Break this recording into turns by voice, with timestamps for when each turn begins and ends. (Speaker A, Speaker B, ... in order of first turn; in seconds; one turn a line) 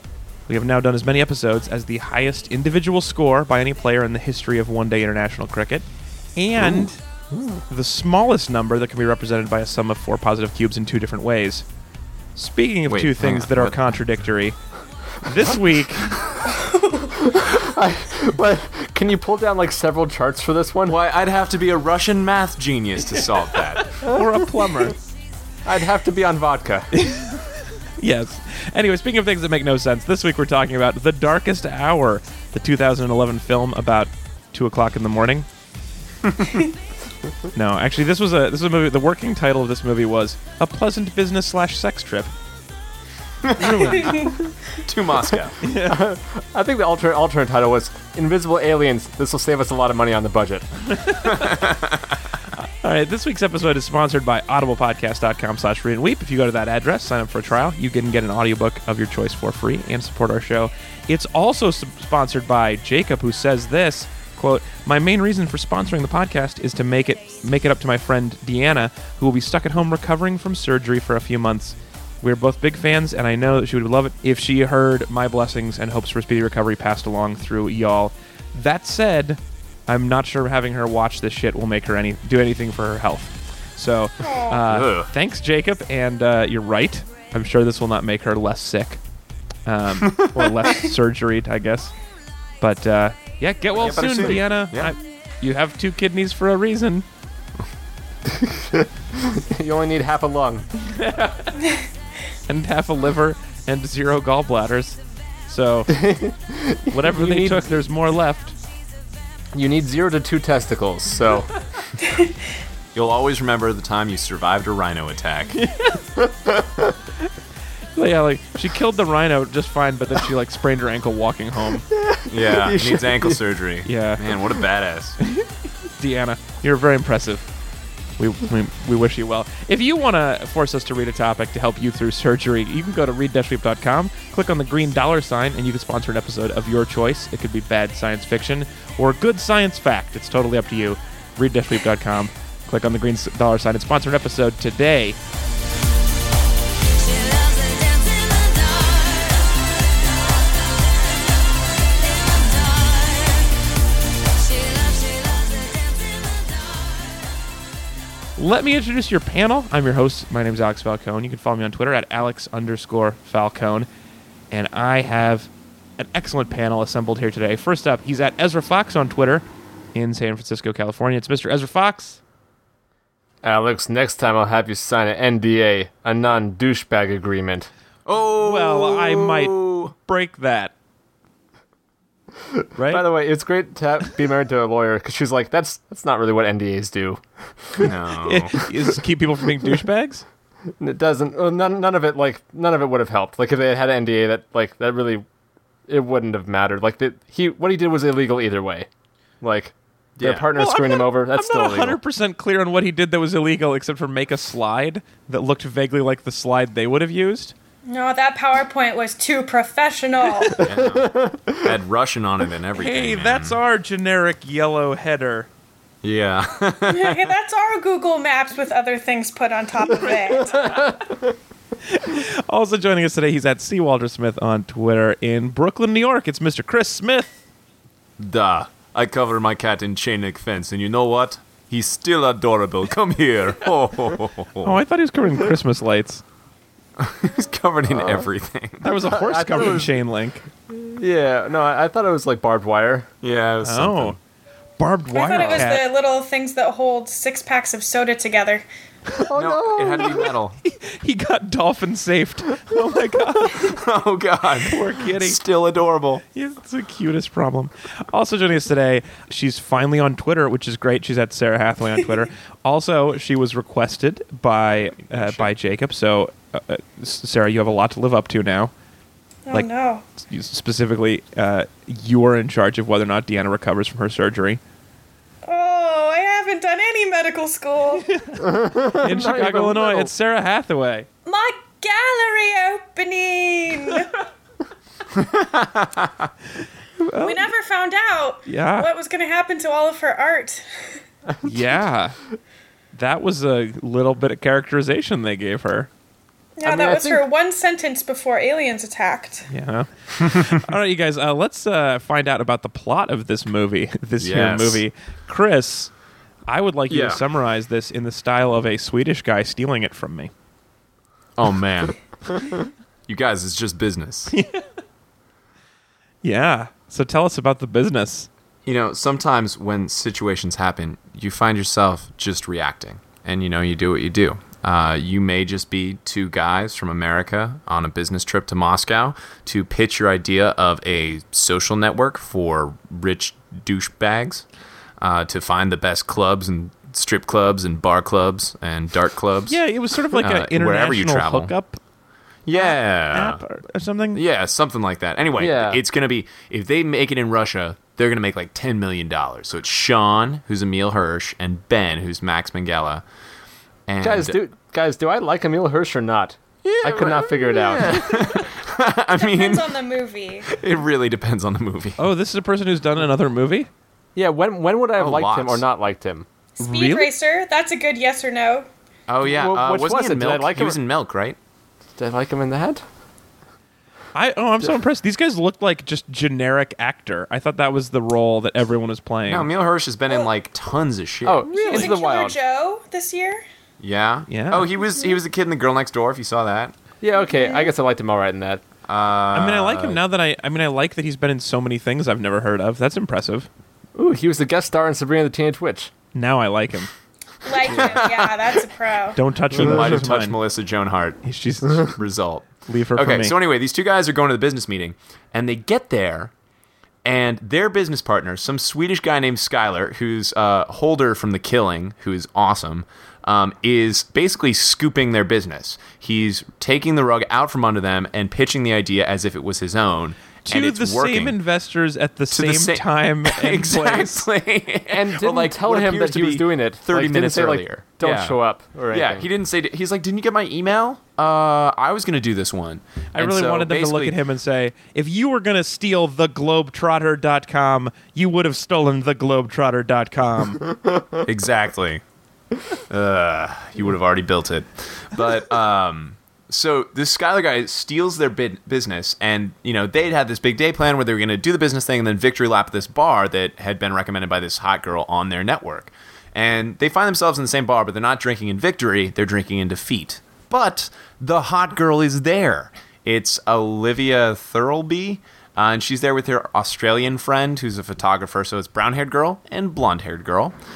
Speaker A: 0.5-5.9
Speaker A: 6.4-7.0
Speaker B: 7.3-7.6
Speaker A: 7.7-11.7
Speaker A: 12.4-14.6
Speaker C: 12.9-13.8
Speaker A: 15.2-16.2
Speaker D: 16.5-17.1
Speaker B: 17.1-21.0
Speaker C: 20.9-24.0
Speaker A: 24.0-25.0
Speaker B: 25.7-26.9
Speaker A: 26.9-35.5
Speaker C: 36.2-36.6
Speaker A: 37.5-42.3
Speaker C: 43.4-44.2
Speaker A: 43.5-44.3
Speaker D: 43.9-44.4
Speaker C: 44.8-45.6
Speaker A: 45.6-46.0
Speaker B: 45.6-50.7
Speaker A: 50.9-51.6
Speaker C: 51.3-52.2
Speaker A: 52.8-89.0
Speaker D: 84.2-84.6
Speaker C: 84.7-85.1
Speaker A: 89.7-91.9
Speaker C: 90.0-90.5
Speaker A: 92.6-97.1
Speaker C: 93.8-94.9
Speaker B: 99.2-100.7
Speaker A: 100.8-101.6
Speaker A: 102.5-106.1
Speaker B: 106.0-107.7
Speaker A: 106.9-108.6
Speaker B: 109.5-111.5
Speaker D: 112.0-112.3
Speaker C: 113.0-115.6
Speaker A: 115.6-116.0
Speaker A: 118.0-121.8
Speaker B: 121.9-123.4
Speaker C: 122.3-125.2
Speaker A: 123.8-124.3
Speaker A: 125.2-127.5
Speaker A: 128.2-145.2
Speaker E: 147.0-149.6
Speaker E: 152.0-153.5
Speaker E: 154.4-157.0
Speaker A: 158.4-163.9
Speaker A: 164.5-172.2
Speaker B: 173.4-177.7
Speaker C: 178.1-179.9
Speaker A: 178.4-180.7
Speaker B: 182.5-187.9
Speaker A: 182.8-183.1
Speaker C: 187.8-188.7
Speaker A: 188.2-190.2
Speaker B: 190.8-195.2
Speaker B: 195.9-198.9
Speaker B: 199.4-202.0
Speaker C: 200.2-200.5
Speaker A: 200.6-207.5
Speaker D: 207.9-210.6
Speaker B: 210.6-211.7
Speaker C: 210.6-213.6
Speaker A: 212.8-215.5
Speaker C: 216.0-217.3
Speaker D: 216.9-220.7
Speaker B: 220.6-221.2
Speaker A: 221.9-227.4
Speaker C: 228.2-234.8
Speaker A: 234.6-236.2
Speaker C: 237.0-239.7
Speaker A: 238.8-240.5
Speaker B: 239.1-239.9
Speaker B: 240.7-243.1
Speaker C: 243.2-244.2
Speaker A: 243.6-244.2
Speaker A: 244.8-245.8
Speaker D: 245.1-248.7
Speaker C: 245.3-245.7
Speaker B: 249.2-250.3
Speaker C: 249.3-250.6
Speaker A: 250.6-253.8
Speaker C: 253.5-256.2
Speaker A: 254.7-255.4
Speaker A: 256.3-268.7
Speaker C: 265.0-265.5
Speaker D: 269.5-270.0
Speaker A: 270.2-274.6
Speaker D: 275.5-278.1
Speaker A: 278.1-281.1
Speaker B: 278.4-280.1
Speaker D: 281.3-284.2
Speaker C: 285.1-286.3
Speaker A: 287.0-287.5
Speaker D: 287.2-290.8
Speaker A: 288.5-288.9
Speaker B: 291.3-291.6
Speaker A: 291.4-292.2
Speaker A: 292.9-295.9
Speaker D: 296.6-299.5
Speaker B: 296.6-297.2
Speaker A: 299.5-305.9
Speaker C: 300.3-300.6
Speaker C: 304.2-304.8
Speaker A: 306.5-310.3
Speaker C: 306.9-307.2
Speaker C: 311.4-312.0
Speaker C: 313.1-314.3
Speaker A: 314.3-314.6
Speaker A: 316.2-318.3
Speaker C: 318.7-334.4
Speaker C: 335.0-339.6
Speaker A: 339.5-341.8
Speaker C: 340.1-341.5
Speaker C: 342.5-343.4
Speaker A: 342.6-344.2
Speaker C: 344.1-353.0
Speaker B: 345.4-345.8
Speaker C: 353.9-354.4
Speaker B: 354.0-358.3
Speaker C: 356.8-359.8
Speaker D: 359.1-360.6
Speaker C: 360.5-362.0
Speaker A: 362.0-363.7
Speaker B: 364.2-366.3
Speaker C: 365.0-365.6
Speaker D: 366.6-368.7
Speaker A: 366.6-367.1
Speaker C: 369.1-371.4
Speaker B: 369.2-370.8
Speaker B: 372.0-372.8
Speaker A: 374.1-379.5
Speaker C: 379.3-381.9
Speaker B: 381.2-382.4
Speaker D: 381.5-383.4
Speaker C: 383.8-386.7
Speaker A: 384.3-384.7
Speaker B: 387.0-388.6
Speaker D: 387.2-387.7
Speaker C: 388.9-390.0
Speaker A: 389.3-393.5
Speaker B: 393.9-395.9
Speaker A: 396.1-396.9
Speaker D: 397.4-399.2
Speaker C: 397.6-398.6
Speaker A: 399.2-400.4
Speaker C: 399.5-406.3
Speaker A: 401.2-402.0
Speaker A: 402.6-403.4
Speaker C: 407.1-421.4
Speaker A: 420.4-424.2
Speaker C: 422.3-434.2
Speaker B: 424.9-429.3
Speaker A: 433.1-440.7
Speaker C: 441.2-442.0
Speaker C: 442.9-470.6